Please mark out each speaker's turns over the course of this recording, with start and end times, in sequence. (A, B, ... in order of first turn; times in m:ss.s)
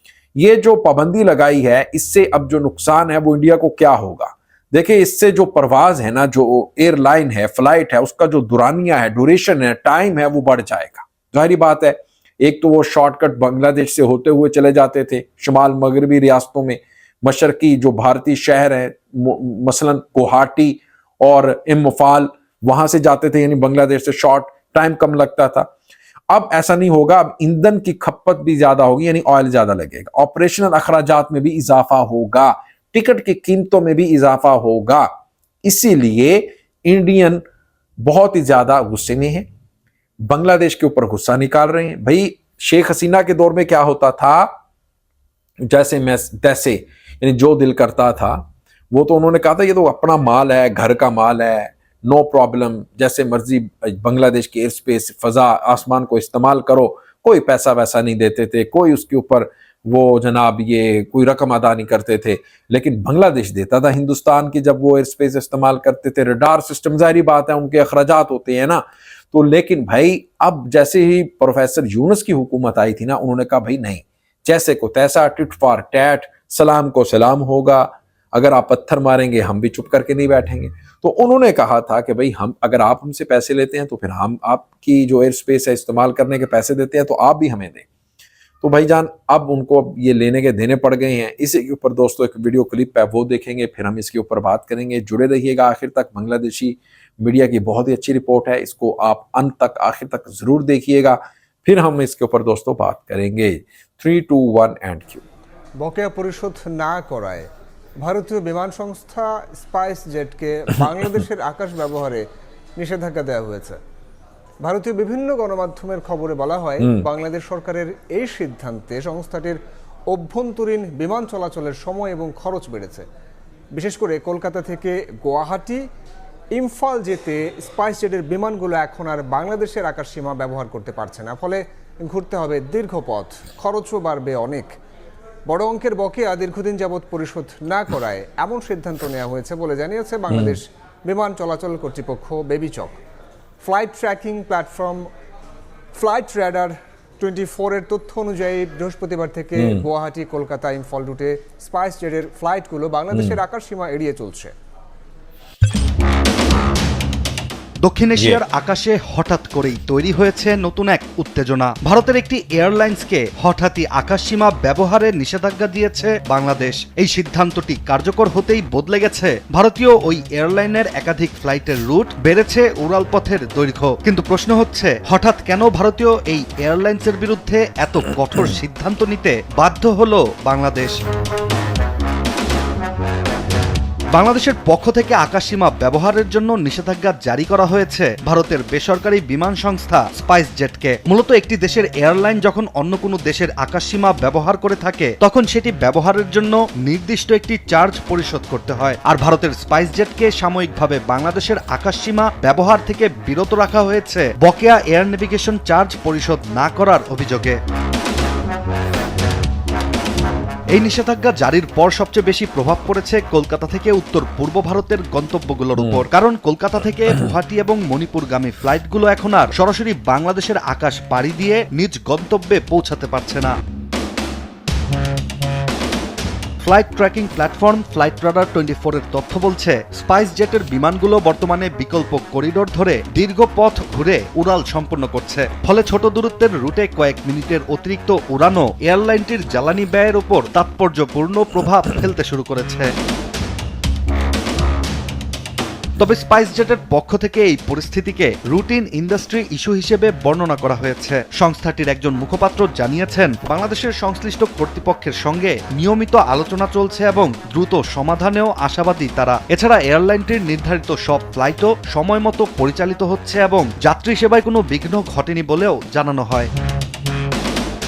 0:00.4-0:25.7 A
0:26.3-0:35.1 A
0:35.6-0:37.4 A
0:38.0-0:39.5 A
0:40.2-0:44.5 A
0:45.7-1:27.8 A
1:28.6-1:45.2 A
1:45.8-1:47.5 B
1:48.0-1:52.2 B
1:52.8-1:53.8 B
1:54.6-1:59.6 B
1:56.8-1:57.0 A
2:00.1-2:03.0 B
2:03.7-2:05.8 B
2:06.5-2:14.7 B
2:15.5-2:23.0 B
2:20.3-2:20.6 A
2:23.6-2:25.0 B
2:25.9-2:34.5 B
2:29.5-2:29.8 A
2:33.1-2:33.4 A
2:37.8-3:01.0 C
2:38.2-2:38.4 A
3:04.1-3:27.6 C
3:30.7-3:43.5 C
3:35.8-3:36.0 A
3:46.6-4:02.9 C
4:06.0-4:26.5 C